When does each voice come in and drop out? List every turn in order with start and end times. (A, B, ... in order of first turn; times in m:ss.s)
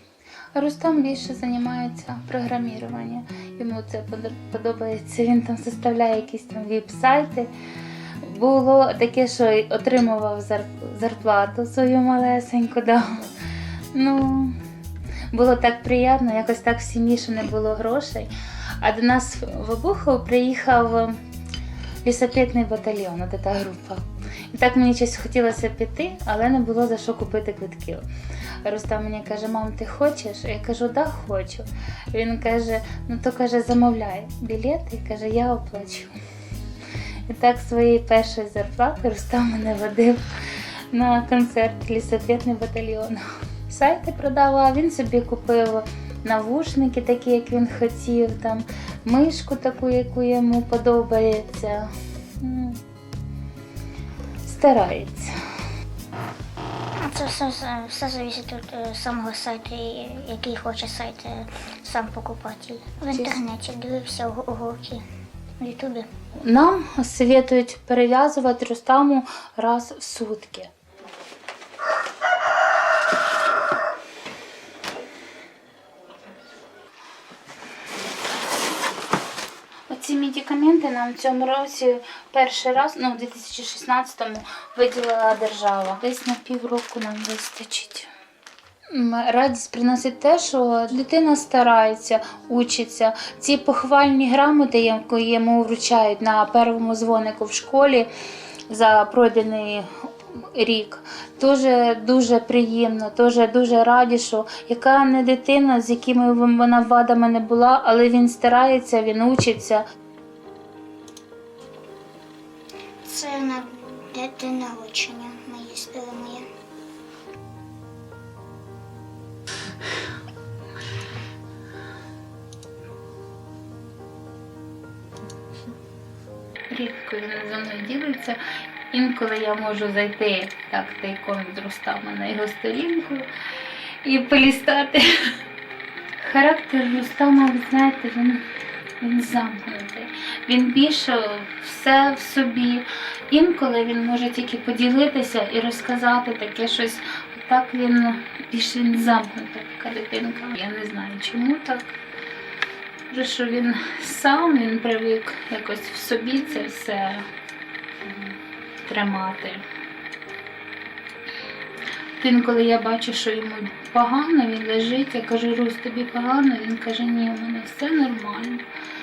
0:00.5-0:07.5 A
0:08.2-0:13.3 A
0:13.9-0:14.6 A
0:15.3-0:18.3 A
0:18.8-0:21.2 A
0:22.0-0:28.0 A
0:28.6-0:36.1 A
0:37.3-0:40.2 A
0:40.9-0:52.8 A
0:54.4-0:55.3 A
0:57.0-1:05.0 B
1:03.1-1:03.4 A
1:05.6-1:06.1 B
1:06.4-1:10.7 A
1:19.9-1:28.1 A
1:28.9-1:38.1 A
1:38.7-1:49.8 A
1:53.0-1:56.5 B
2:06.7-2:08.4 A
2:08.9-2:13.2 A
2:14.0-2:15.0 A
2:16.2-2:18.4 A
2:19.0-2:31.9 A
2:33.1-2:37.2 A
2:38.8-2:39.6 A
2:42.2-2:48.6 A